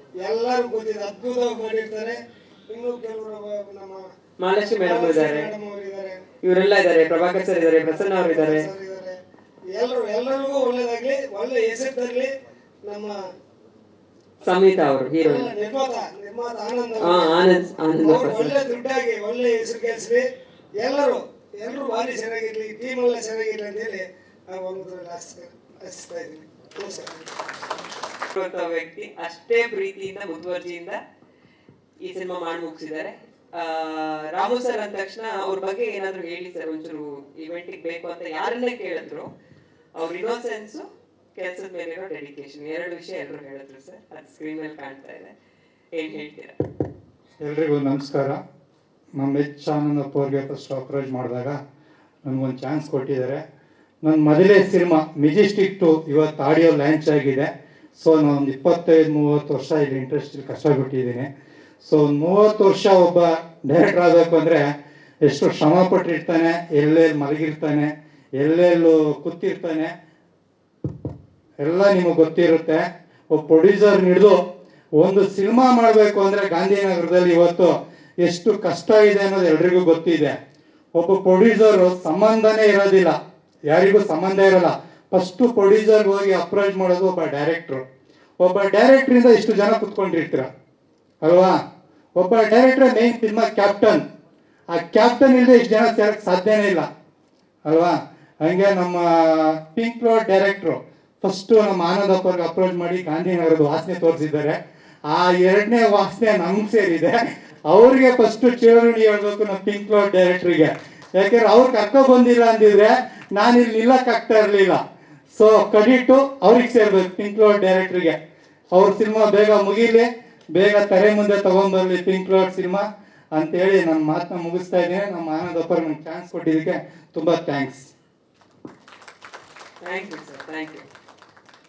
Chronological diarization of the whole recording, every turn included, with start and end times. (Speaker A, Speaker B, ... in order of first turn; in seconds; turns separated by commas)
Speaker A: 0.2-6.2, Speaker B: 4.4-5.5, Speaker B: 6.4-8.7, Speaker A: 7.9-9.2, Speaker A: 9.8-12.3, Speaker A: 12.8-13.2, Speaker B: 14.4-15.5, Speaker A: 15.2-20.2, Speaker B: 17.0-18.6, Speaker A: 20.8-27.1, Speaker B: 28.3-31.0, Speaker B: 32.0-39.2, Speaker B: 40.0-40.8, Speaker B: 41.4-45.3, Speaker B: 45.9-46.5, Speaker C: 47.4-48.4, Speaker C: 49.2-51.6, Speaker C: 52.2-53.4, Speaker C: 54.0-61.3, Speaker C: 61.8-64.6, Speaker C: 65.2-69.9, Speaker C: 71.6-74.3, Speaker C: 75.0-77.7, Speaker C: 78.2-80.3, Speaker C: 81.0-83.1, Speaker C: 83.7-87.8, Speaker C: 88.4-90.5, Speaker C: 91.2-91.5, Speaker C: 92.2-94.0, Speaker C: 94.7-96.8, Speaker C: 97.7-104.6, Speaker C: 105.1-107.2, Speaker C: 107.7-114.8, Speaker C: 115.3-118.2, Speaker C: 118.7-122.8, Speaker C: 123.3-127.9, Speaker B: 129.8-130.8